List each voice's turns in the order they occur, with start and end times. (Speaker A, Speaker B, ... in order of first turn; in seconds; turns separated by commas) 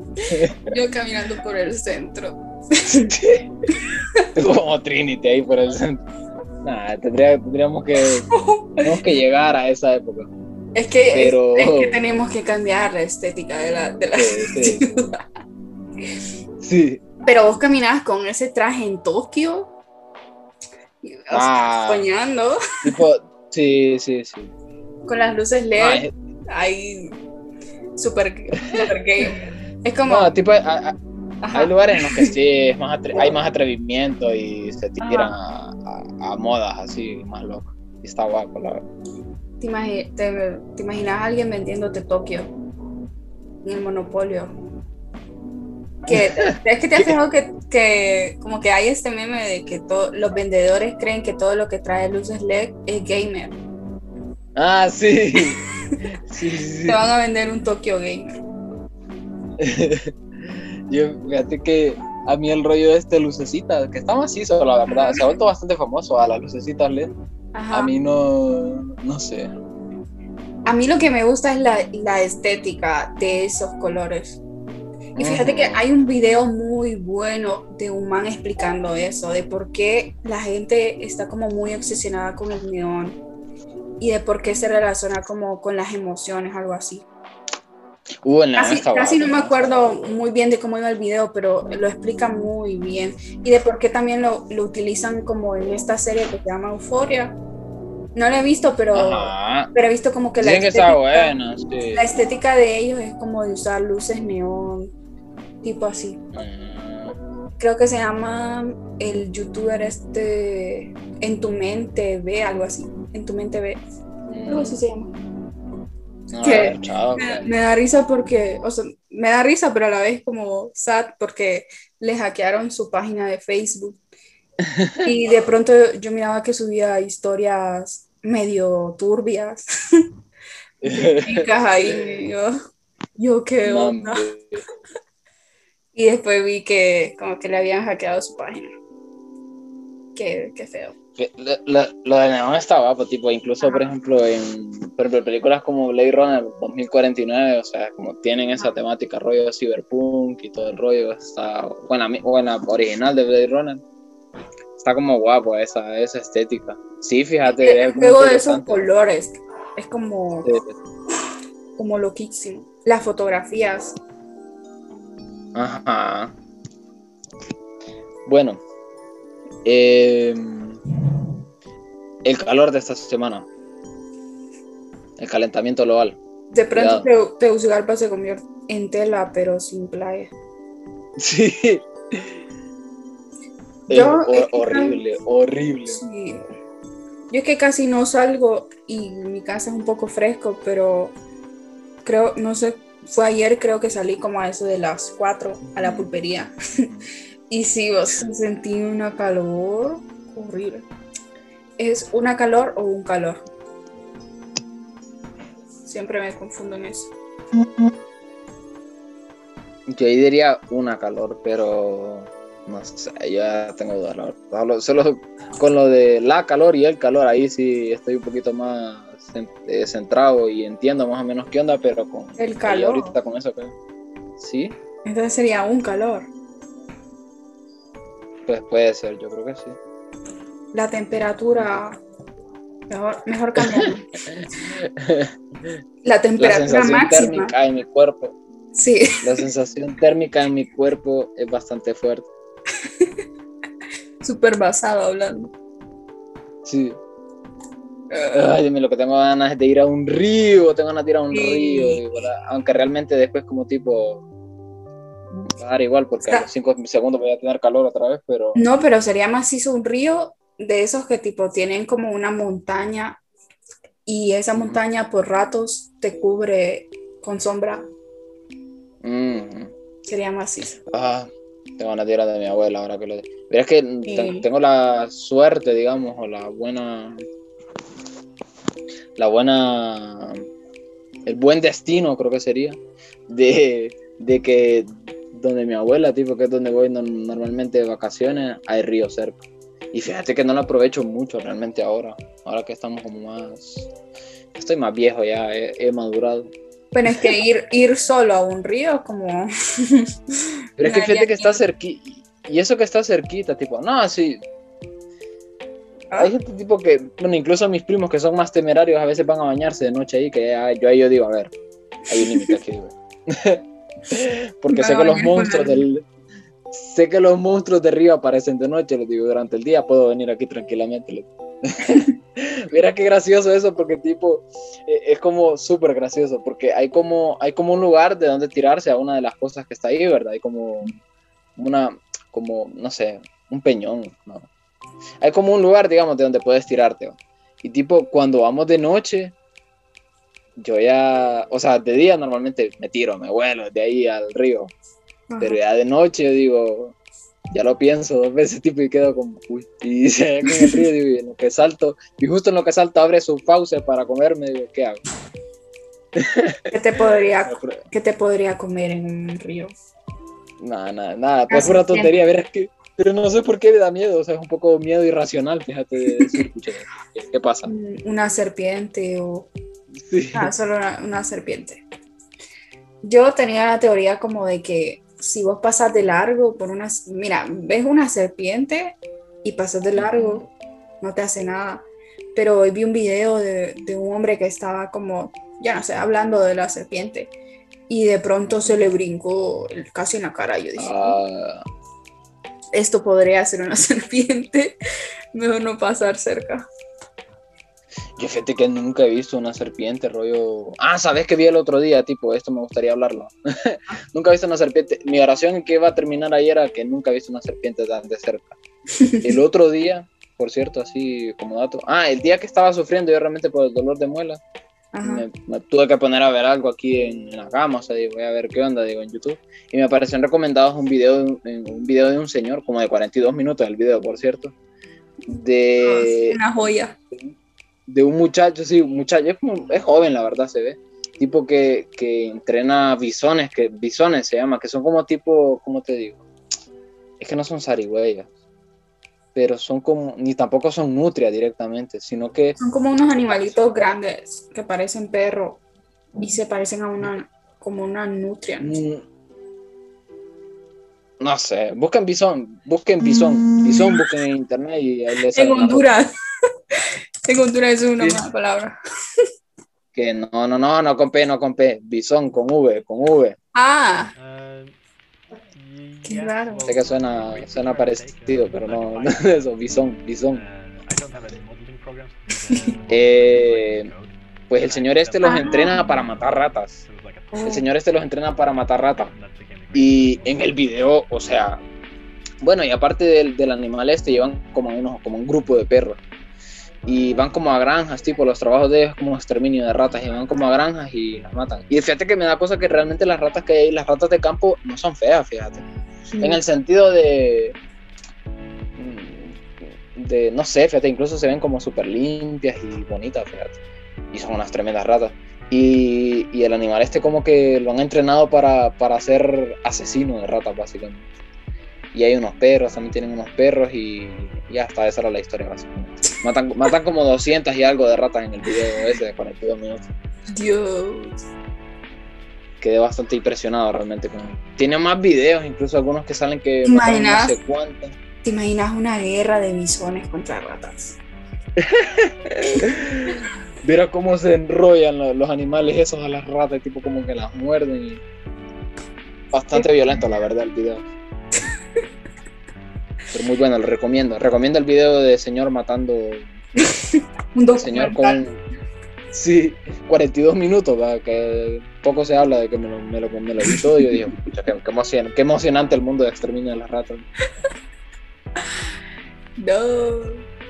Speaker A: 0.3-0.7, Speaker B: 0.7-3.1, Speaker A: 3.0-3.5, Speaker A: 4.3-6.0, Speaker A: 6.6-8.3, Speaker B: 8.3-9.0, Speaker A: 8.8-10.3, Speaker B: 10.8-15.1, Speaker A: 11.1-12.0, Speaker A: 14.2-14.8, Speaker A: 16.6-17.0, Speaker B: 17.2-19.7, Speaker B: 21.0-22.6, Speaker A: 21.3-22.1, Speaker A: 22.8-24.5, Speaker B: 25.1-27.1, Speaker A: 25.8-26.1, Speaker B: 28.0-30.3, Speaker A: 30.1-31.0, Speaker B: 31.4-32.3, Speaker A: 31.5-38.9, Speaker B: 35.0-35.4, Speaker B: 39.6-42.5, Speaker B: 43.6-44.5, Speaker B: 46.0-53.6, Speaker A: 46.1-47.1, Speaker A: 54.5-55.6, Speaker B: 55.4-56.0, Speaker A: 56.3-57.0, Speaker B: 56.8-58.4, Speaker A: 59.6-67.1, Speaker B: 64.9-65.2, Speaker B: 67.5-67.9, Speaker A: 67.7-69.5, Speaker B: 70.7-74.4, Speaker A: 75.2-75.8, Speaker B: 75.2-83.2, Speaker B: 84.0-87.1, Speaker A: 88.2-89.7, Speaker B: 88.6-97.4, Speaker B: 98.2-101.4, Speaker A: 98.9-99.7, Speaker A: 100.4-102.0, Speaker B: 101.9-104.9, Speaker B: 105.6-106.2, Speaker A: 106.3-107.2, Speaker B: 107.6-113.8, Speaker A: 114.3-114.8, Speaker B: 114.5-115.1, Speaker A: 116.3-117.5, Speaker B: 116.4-124.0, Speaker A: 124.6-125.1, Speaker B: 125.0-130.1, Speaker A: 130.8-131.5, Speaker B: 130.9-132.5, Speaker B: 133.2-134.2, Speaker A: 133.7-134.6, Speaker B: 135.9-138.7, Speaker B: 140.2-140.9, Speaker A: 141.2-153.8, Speaker A: 154.8-158.8, Speaker B: 157.5-160.6, Speaker A: 160.4-160.7, Speaker B: 161.8-163.9, Speaker A: 165.5-166.3, Speaker A: 168.3-168.6, Speaker A: 169.7-170.8, Speaker A: 172.2-173.5, Speaker A: 175.2-176.2, Speaker B: 176.5-180.3, Speaker A: 176.7-177.1, Speaker A: 181.2-182.4, Speaker B: 183.9-185.0, Speaker A: 183.9-186.0, Speaker B: 185.9-186.5, Speaker B: 187.3-191.1, Speaker B: 192.1-196.9, Speaker A: 195.8-196.1, Speaker B: 197.5-200.9, Speaker B: 201.8-203.4, Speaker B: 205.8-207.1, Speaker A: 207.6-207.9, Speaker A: 209.9-223.7, Speaker B: 222.4-223.2, Speaker A: 224.4-224.8, Speaker B: 225.1-226.3, Speaker A: 228.5-229.8, Speaker B: 230.7-232.0, Speaker B: 232.9-234.3, Speaker A: 233.6-235.3, Speaker B: 236.0-237.5, Speaker A: 236.4-238.3, Speaker B: 238.8-239.4, Speaker A: 239.2-242.3, Speaker B: 244.2-245.5, Speaker A: 246.7-247.0, Speaker B: 248.1-248.5, Speaker A: 248.3-254.2, Speaker B: 251.3-252.0, Speaker A: 255.5-258.6, Speaker B: 258.6-263.2, Speaker B: 264.1-267.9, Speaker A: 264.5-264.8, Speaker A: 269.0-269.7, Speaker B: 270.1-270.8, Speaker A: 270.9-277.2, Speaker B: 274.1-274.5, Speaker A: 279.2-280.4, Speaker A: 281.3-289.4, Speaker A: 289.9-293.9, Speaker A: 294.6-296.5, Speaker B: 296.9-300.1, Speaker A: 300.8-304.4, Speaker B: 300.8-301.6, Speaker A: 306.2-311.5, Speaker A: 312.1-316.1, Speaker B: 314.7-315.9, Speaker A: 316.7-331.0, Speaker B: 321.8-322.1, Speaker A: 331.6-334.5, Speaker A: 335.2-339.3, Speaker A: 340.6-344.7, Speaker B: 345.3-345.6, Speaker A: 345.4-347.0, Speaker A: 347.5-355.0, Speaker B: 350.5-350.8, Speaker A: 356.2-356.7, Speaker B: 356.7-359.7, Speaker A: 357.5-357.8, Speaker A: 360.6-367.7, Speaker B: 361.5-362.1, Speaker B: 366.1-366.4, Speaker B: 367.7-369.5, Speaker A: 370.0-370.5, Speaker B: 370.3-371.8, Speaker B: 373.0-380.5, Speaker A: 380.0-380.4, Speaker B: 381.0-387.3, Speaker B: 387.9-391.2, Speaker A: 388.5-388.8, Speaker A: 390.8-391.6, Speaker B: 392.7-394.8, Speaker B: 395.3-396.7, Speaker A: 398.2-408.6, Speaker B: 409.0-409.2, Speaker A: 409.2-414.4, Speaker B: 414.9-415.2, Speaker A: 415.0-424.5, Speaker A: 425.3-426.4, Speaker B: 425.8-427.0, Speaker A: 427.9-436.2, Speaker A: 437.2-438.3, Speaker A: 439.4-442.6, Speaker B: 442.6-445.6, Speaker B: 446.2-448.8, Speaker A: 448.6-449.0, Speaker A: 451.2-455.9, Speaker B: 453.4-454.0, Speaker B: 455.3-456.1, Speaker B: 456.7-458.8, Speaker A: 459.9-463.4, Speaker B: 463.6-464.1, Speaker C: 464.2-464.8, Speaker C: 465.5-469.5, Speaker B: 466.0-466.6, Speaker A: 466.6-470.4, Speaker C: 470.3-477.6, Speaker A: 472.9-473.9, Speaker A: 474.5-476.8, Speaker B: 475.2-475.8, Speaker B: 477.3-477.7, Speaker A: 477.5-479.1, Speaker C: 478.9-480.6, Speaker A: 479.7-481.6, Speaker A: 482.4-486.0, Speaker A: 486.9-495.6, Speaker B: 496.1-496.4, Speaker A: 496.2-497.6, Speaker A: 498.8-503.6, Speaker A: 504.1-511.1, Speaker A: 511.9-519.9, Speaker B: 520.3-521.2, Speaker A: 522.6-528.0, Speaker B: 526.6-527.3, Speaker B: 528.2-531.0, Speaker A: 531.6-538.0, Speaker A: 539.3-540.9, Speaker A: 543.1-546.3, Speaker B: 546.6-548.2, Speaker A: 547.5-548.4, Speaker A: 549.1-557.1, Speaker B: 559.4-560.2